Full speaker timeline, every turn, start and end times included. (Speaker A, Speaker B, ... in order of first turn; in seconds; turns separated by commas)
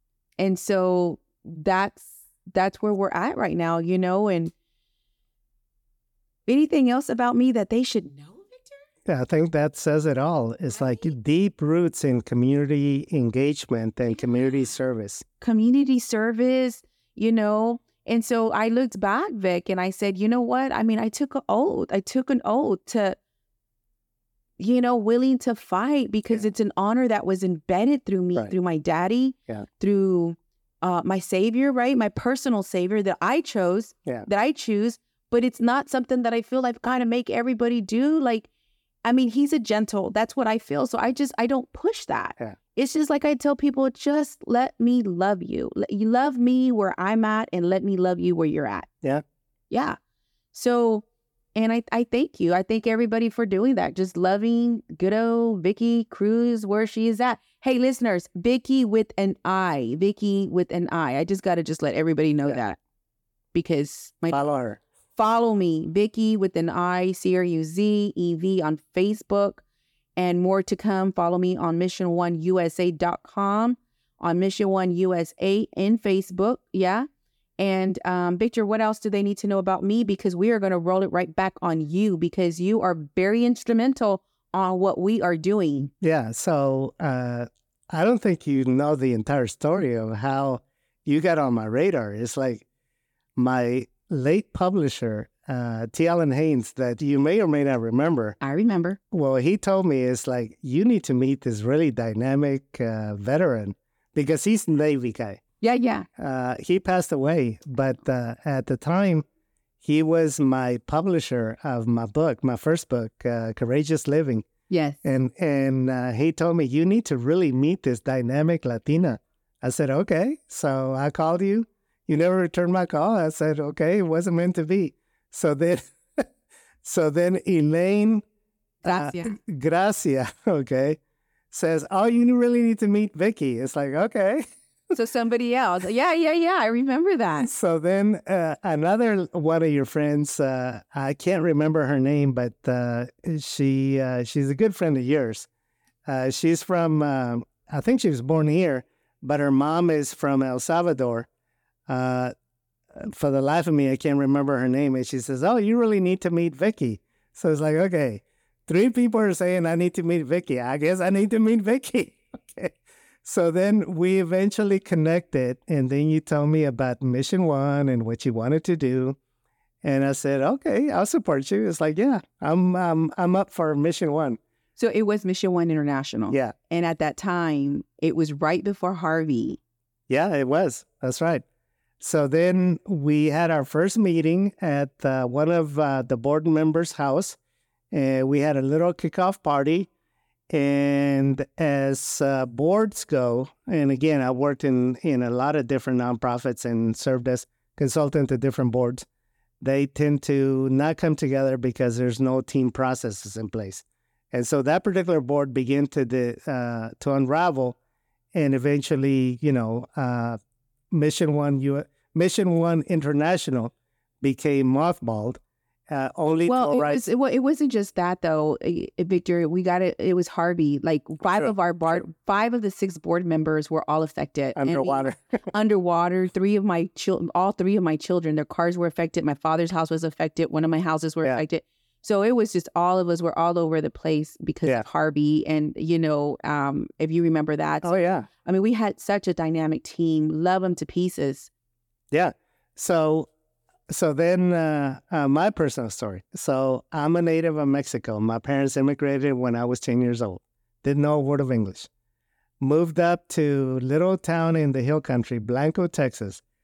Speaker A: 0.4-4.5, Speaker A: 6.5-8.8, Speaker B: 9.1-15.2, Speaker A: 15.4-23.2, Speaker A: 24.6-38.5, Speaker A: 39.0-48.9, Speaker A: 49.7-50.0, Speaker A: 50.5-62.8, Speaker A: 63.5-64.4, Speaker B: 64.3-64.8, Speaker A: 65.2-69.6, Speaker A: 70.2-77.1, Speaker A: 77.6-85.9, Speaker B: 86.0-92.6, Speaker B: 93.4-98.3, Speaker A: 98.4-99.0, Speaker B: 99.1-105.4, Speaker A: 105.6-106.1, Speaker B: 106.2-109.2, Speaker B: 109.8-114.5, Speaker A: 114.7-115.0, Speaker B: 115.0-126.2, Speaker B: 126.8-128.2, Speaker A: 128.8-129.3, Speaker B: 128.8-131.0, Speaker B: 131.5-134.4, Speaker A: 134.9-137.5, Speaker B: 137.4-145.5, Speaker B: 146.1-151.3, Speaker B: 151.9-152.3, Speaker B: 152.9-169.2, Speaker B: 169.8-174.4, Speaker A: 174.8-179.6, Speaker B: 180.1-181.4, Speaker B: 182.0-187.4, Speaker B: 187.9-189.9, Speaker B: 190.5-199.1, Speaker B: 199.6-207.8, Speaker B: 208.3-210.4, Speaker B: 210.9-217.0, Speaker A: 216.4-241.5, Speaker B: 224.6-225.4, Speaker B: 237.8-238.3, Speaker B: 242.1-243.3, Speaker B: 243.9-251.9, Speaker B: 252.6-256.4